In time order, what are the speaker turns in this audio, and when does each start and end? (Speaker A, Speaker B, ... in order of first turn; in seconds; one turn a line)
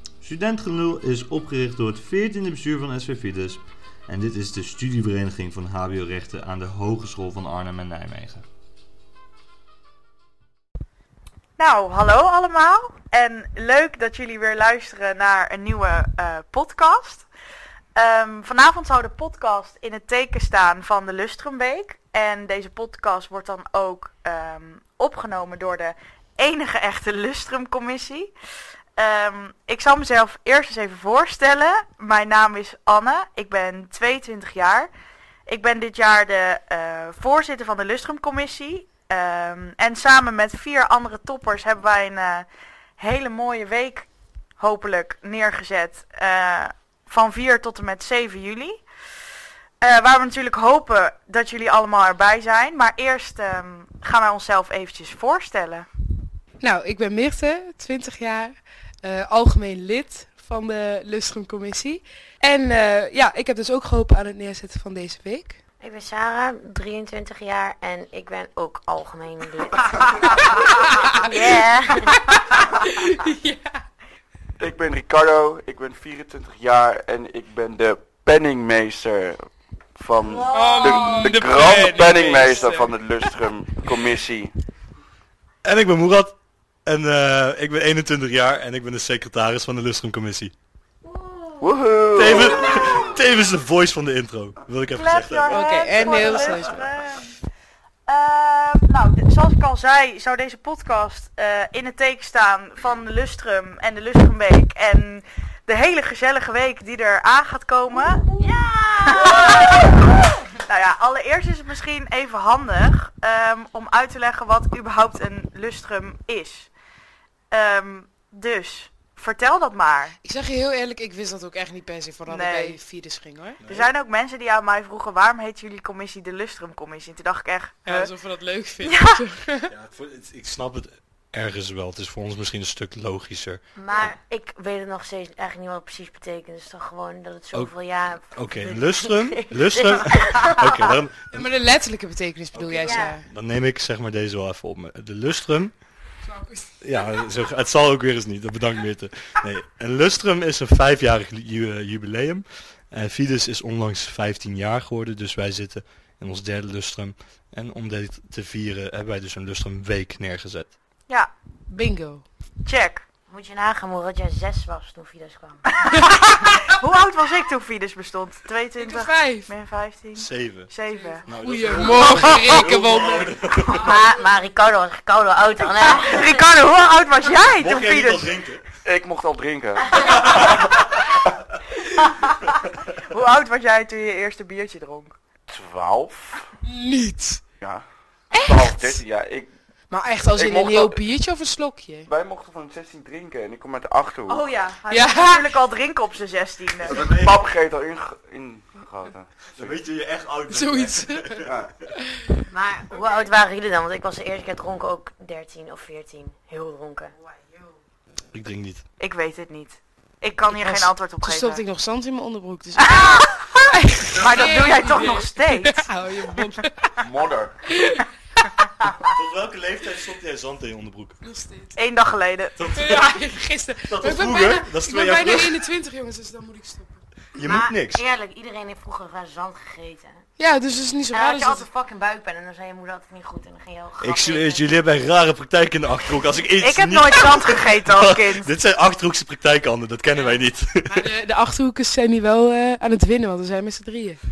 Speaker A: 0.2-8.4
Speaker B: 11.6-17.3
Speaker B: 18.0-28.3
Speaker B: 29.0-34.9
Speaker B: 35.5-42.5
Speaker B: 43.0-44.1
Speaker B: 44.6-48.8
Speaker B: 49.8-55.9
Speaker C: 56.6-65.6
Speaker D: 65.8-72.7
Speaker C: 70.3-73.8
Speaker E: 74.6-84.5
Speaker D: 80.3-81.3
Speaker C: 80.5-82.9
Speaker F: 85.6-86.3
Speaker F: 86.9-90.5
Speaker D: 91.1-91.6
Speaker E: 91.6-92.9
Speaker F: 92.1-96.6
Speaker D: 92.5-93.1
Speaker B: 94.9-97.3
Speaker C: 95.5-96.8
Speaker B: 98.1-116.7
Speaker D: 108.4-110.0
Speaker B: 117.5-120.2
Speaker C: 120.2-123.6
Speaker B: 122.3-122.8
Speaker F: 123.6-123.9
Speaker B: 123.7-128.1
Speaker C: 127.8-129.7
Speaker B: 128.8-129.2
Speaker F: 129.7-134.1
Speaker D: 133.8-140.9
Speaker F: 138.3-141.5
Speaker C: 141.3-143.3
Speaker F: 142.6-145.7
Speaker D: 142.8-143.2
Speaker C: 146.2-147.1
Speaker F: 146.8-160.7
Speaker C: 161.7-162.3
Speaker B: 162.7-163.0
Speaker D: 163.3-165.7
Speaker B: 165.7-171.2
Speaker C: 168.8-169.5
Speaker F: 170.2-170.7
Speaker C: 170.9-174.1
Speaker F: 171.2-174.0
Speaker D: 173.7-176.4
Speaker B: 175.9-178.3
Speaker F: 177.6-178.6
Speaker E: 178.8-180.7
Speaker F: 180.0-181.1
Speaker B: 182.0-185.1
Speaker E: 185.5-186.4
Speaker C: 186.6-187.4
Speaker E: 187.6-189.5
Speaker C: 188.3-189.0
Speaker C: 189.9-192.1
Speaker E: 190.4-191.0
Speaker E: 192.1-194.4
Speaker B: 194.3-197.0
Speaker C: 194.9-195.5
Speaker F: 196.8-197.4
Speaker E: 196.9-199.8
Speaker F: 199.5-201.9
Speaker C: 200.5-201.4
Speaker E: 201.4-201.7
Speaker D: 202.5-207.1
Speaker C: 207.5-207.8
Speaker F: 208.3-208.8
Speaker B: 209.0-211.6
Speaker C: 210.5-217.0
Speaker B: 212.8-215.9
Speaker E: 217.0-217.6
Speaker C: 217.7-218.1
Speaker B: 218.6-219.1
Speaker F: 219.0-221.2
Speaker C: 221.2-221.8
Speaker B: 221.8-222.6
Speaker F: 222.6-223.2
Speaker C: 222.7-227.0
Speaker F: 223.8-225.7
Speaker F: 227.3-228.0
Speaker D: 227.4-230.2
Speaker C: 230.4-231.7
Speaker D: 231.1-234.8
Speaker F: 234.0-241.1
Speaker B: 236.6-238.5
Speaker C: 240.9-244.2